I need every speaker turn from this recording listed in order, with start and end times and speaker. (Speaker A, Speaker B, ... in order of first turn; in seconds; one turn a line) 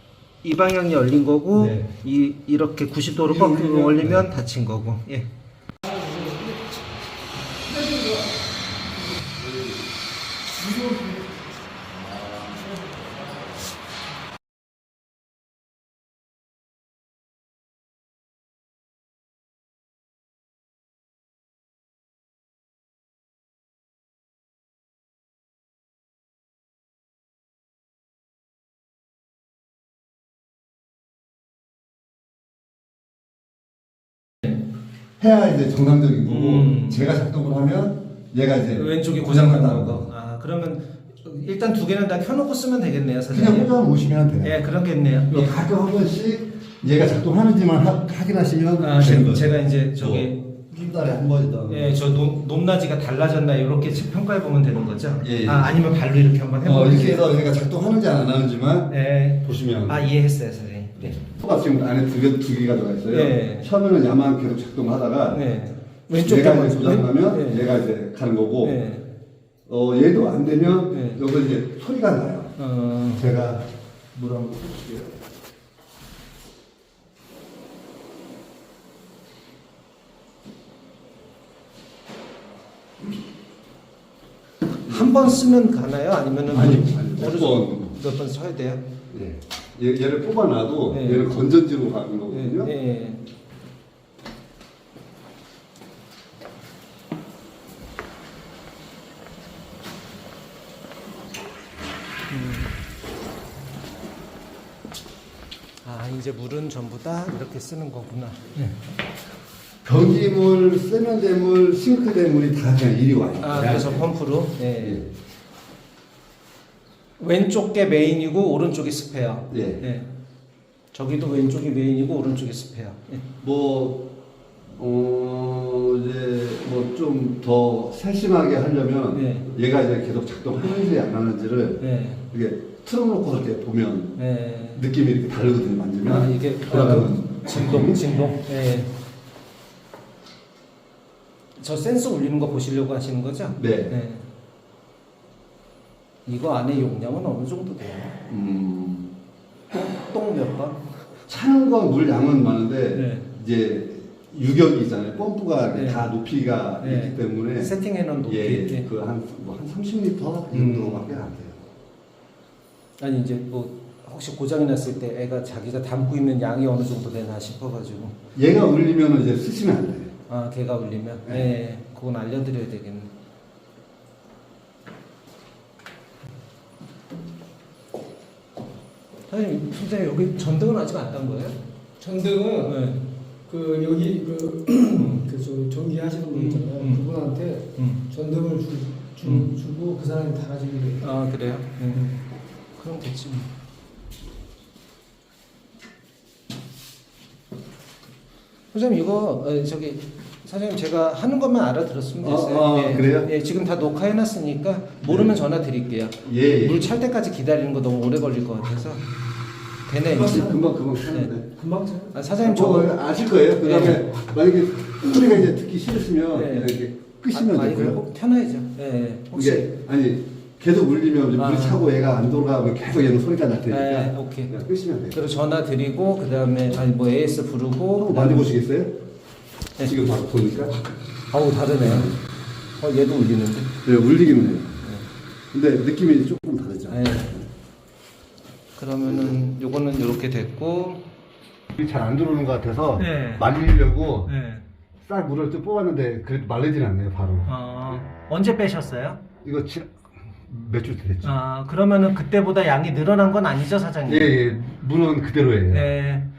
Speaker A: 0.4-5.3
Speaker B: 1.5-1.9
Speaker B: 3.3-4.3
Speaker B: 9.4-9.7
Speaker B: 35.2-40.1
Speaker A: 36.2-37.1
Speaker A: 38.7-43.7
Speaker B: 43.3-44.6
Speaker A: 44.4-45.6
Speaker B: 45.3-52.0
Speaker A: 48.8-50.4
Speaker A: 51.7-57.2
Speaker B: 55.2-55.8
Speaker B: 56.6-60.0
Speaker A: 58.9-61.2
Speaker B: 61.0-65.4
Speaker A: 63.1-63.7
Speaker A: 65.3-67.8
Speaker B: 66.2-68.8
Speaker A: 68.6-69.1
Speaker B: 69.7-72.5
Speaker A: 70.9-71.2
Speaker A: 72.6-73.2
Speaker B: 73.1-75.2
Speaker A: 84.8-88.8
Speaker B: 84.9-85.3
Speaker B: 86.5-87.9
Speaker B: 89.1-92.7
Speaker A: 90.9-91.3
Speaker A: 92.3-93.2
Speaker A: 102.3-102.7
Speaker A: 105.8-108.8
Speaker B: 109.8-114.1
Speaker A: 113.4-115.0
Speaker B: 114.8-115.1
Speaker A: 117.2-120.1
Speaker B: 119.5-119.8
Speaker A: 120.9-123.2
Speaker B: 123.4-124.1
Speaker B: 124.8-134.2
Speaker A: 129.1-129.5
Speaker A: 131.8-132.2
Speaker A: 134.2-134.8
Speaker B: 134.7-138.0
Speaker A: 136.1-138.9
Speaker A: 141.6-144.2
Speaker B: 143.6-144.0
Speaker A: 146.2-148.2
Speaker B: 148.3-149.1
Speaker A: 149.9-150.9
Speaker B: 151.3-157.7
Speaker A: 152.9-153.3
Speaker A: 155.7-156.1
Speaker A: 156.8-158.9
Speaker B: 158.3-161.6
Speaker A: 160.5-161.1
Speaker A: 163.0-168.2
Speaker B: 168.3-170.1
Speaker A: 170.3-173.1
Speaker A: 179.3-181.6
Speaker C: 182.0-182.8
Speaker A: 182.6-183.1
Speaker C: 183.5-191.1
Speaker A: 184.9-185.3
Speaker A: 186.3-187.1
Speaker A: 187.8-188.1
Speaker A: 189.2-189.6
Speaker A: 191.0-192.2
Speaker A: 192.8-193.5
Speaker A: 198.7-209.0
Speaker B: 202.2-203.3
Speaker B: 205.0-205.4
Speaker B: 206.2-206.9
Speaker A: 209.9-210.5
Speaker B: 210.0-211.6
Speaker A: 211.1-211.4
Speaker C: 211.6-212.1
Speaker A: 212.1-212.9
Speaker B: 212.4-218.0
Speaker A: 213.6-214.1
Speaker A: 216.3-216.8
Speaker A: 217.3-219.7
Speaker B: 219.3-225.2
Speaker A: 221.4-221.9
Speaker A: 223.7-224.5
Speaker A: 225.1-228.5
Speaker B: 228.0-228.9
Speaker B: 229.8-230.8
Speaker A: 231.3-232.2
Speaker B: 231.8-232.1
Speaker A: 232.8-233.8
Speaker B: 233.8-234.8
Speaker A: 234.8-235.1
Speaker B: 235.5-237.5
Speaker A: 236.9-237.4
Speaker A: 238.8-241.0
Speaker B: 239.0-239.4
Speaker B: 241.7-244.3
Speaker A: 243.0-243.5
Speaker A: 244.2-244.6
Speaker B: 245.0-247.5
Speaker A: 247.5-249.2
Speaker B: 249.4-251.3
Speaker A: 251.2-254.3
Speaker B: 254.1-255.9
Speaker A: 255.7-256.3